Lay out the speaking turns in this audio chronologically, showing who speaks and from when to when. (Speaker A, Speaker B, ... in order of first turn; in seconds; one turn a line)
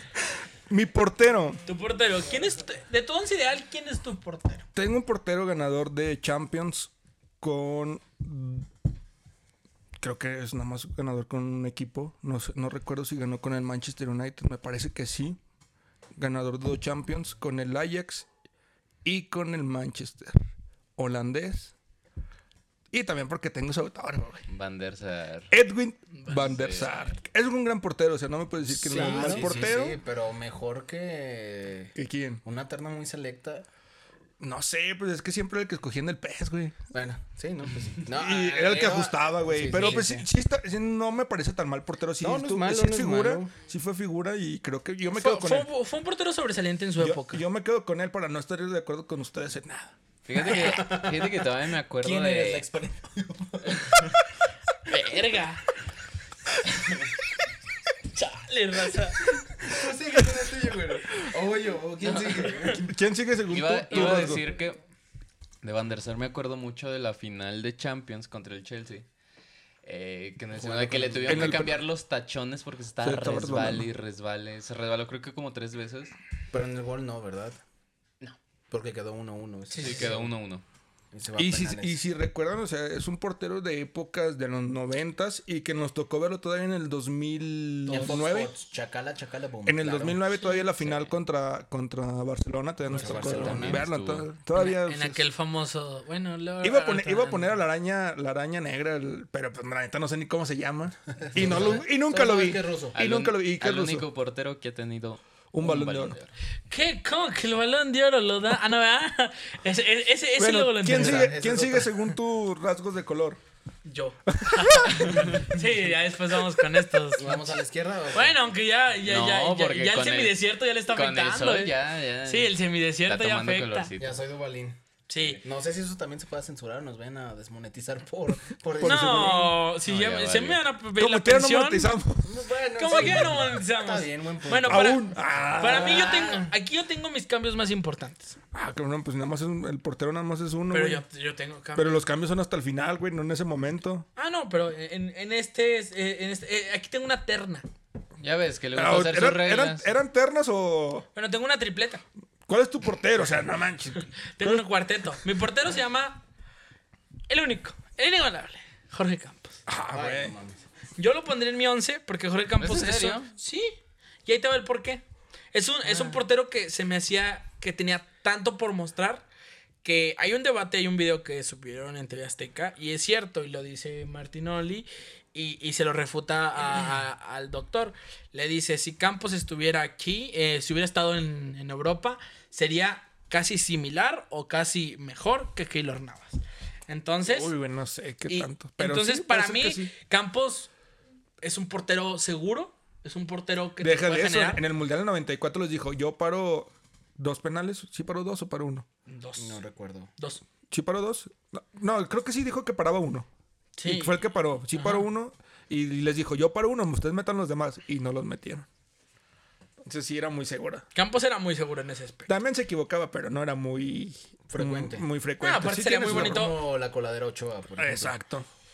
Speaker A: 0.7-1.6
Speaker B: 1.7-4.7
Speaker A: 4.8-8.7
Speaker A: 10.0-15.4
Speaker A: 16.2-18.3
Speaker A: 19.1-20.4
Speaker A: 21.0-21.7
Speaker A: 22.9-24.4
Speaker C: 24.5-25.5
Speaker A: 25.5-30.0
Speaker B: 26.2-26.4
Speaker C: 26.3-27.2
Speaker D: 28.7-33.7
Speaker C: 29.0-29.7
Speaker A: 32.0-32.4
Speaker A: 34.4-36.8
Speaker D: 36.9-40.3
Speaker A: 38.1-45.7
Speaker D: 42.2-43.5
Speaker B: 45.1-47.4
Speaker A: 47.0-50.0
Speaker C: 50.2-52.7
Speaker D: 50.4-51.5
Speaker D: 52.0-54.1
Speaker B: 54.9-55.6
Speaker B: 58.1-59.2
Speaker D: 59.6-62.9
Speaker C: 62.0-62.5
Speaker A: 62.7-64.5
Speaker C: 63.5-64.8
Speaker C: 65.6-69.1
Speaker C: 69.8-76.2
Speaker D: 70.6-71.8
Speaker A: 71.3-71.8
Speaker A: 73.0-73.9
Speaker D: 76.5-77.6
Speaker D: 78.7-80.3
Speaker B: 79.7-80.0
Speaker C: 79.8-80.6
Speaker D: 81.1-82.0
Speaker A: 81.4-88.5
Speaker D: 87.9-90.2
Speaker A: 89.7-95.2
Speaker D: 92.9-93.8
Speaker C: 93.0-94.3
Speaker B: 94.5-97.5
Speaker A: 96.6-104.0
Speaker D: 101.2-103.0
Speaker C: 102.9-106.3
Speaker A: 105.5-106.2
Speaker B: 106.7-111.3
Speaker A: 110.4-113.4
Speaker D: 110.9-112.0
Speaker B: 113.8-117.6
Speaker A: 114.3-115.1
Speaker D: 117.2-118.4
Speaker B: 118.1-123.9
Speaker C: 119.0-124.2
Speaker D: 124.0-129.5
Speaker B: 125.1-125.4
Speaker A: 128.8-129.5
Speaker B: 128.8-131.9
Speaker C: 129.8-130.6
Speaker A: 131.0-132.3
Speaker D: 132.2-135.0
Speaker B: 132.8-135.1
Speaker A: 132.9-133.3
Speaker A: 134.7-136.2
Speaker B: 135.6-138.4
Speaker D: 135.6-136.5
Speaker A: 138.5-141.0
Speaker B: 140.7-142.0
Speaker A: 141.8-144.1
Speaker B: 144.2-147.7
Speaker C: 148.2-149.9
Speaker A: 148.7-151.1
Speaker B: 151.2-152.0
Speaker A: 152.5-154.7
Speaker B: 154.4-156.2
Speaker B: 157.3-159.6
Speaker A: 159.7-160.4
Speaker D: 159.9-160.6
Speaker B: 161.0-163.7
Speaker C: 162.6-163.3
Speaker B: 164.3-165.0
Speaker B: 165.5-169.2
Speaker B: 169.8-187.5
Speaker A: 187.3-189.9
Speaker B: 188.3-190.7
Speaker B: 191.4-194.6
Speaker A: 193.8-198.9
Speaker B: 199.1-199.6
Speaker D: 199.4-200.1
Speaker B: 200.2-200.4
Speaker A: 200.7-203.3
Speaker B: 203.8-204.2
Speaker A: 203.8-208.7
Speaker B: 204.8-205.1
Speaker A: 209.8-210.9
Speaker B: 210.9-212.3
Speaker A: 212.3-216.5
Speaker D: 214.5-215.1
Speaker B: 215.4-216.6
Speaker D: 216.0-218.1
Speaker A: 217.8-218.5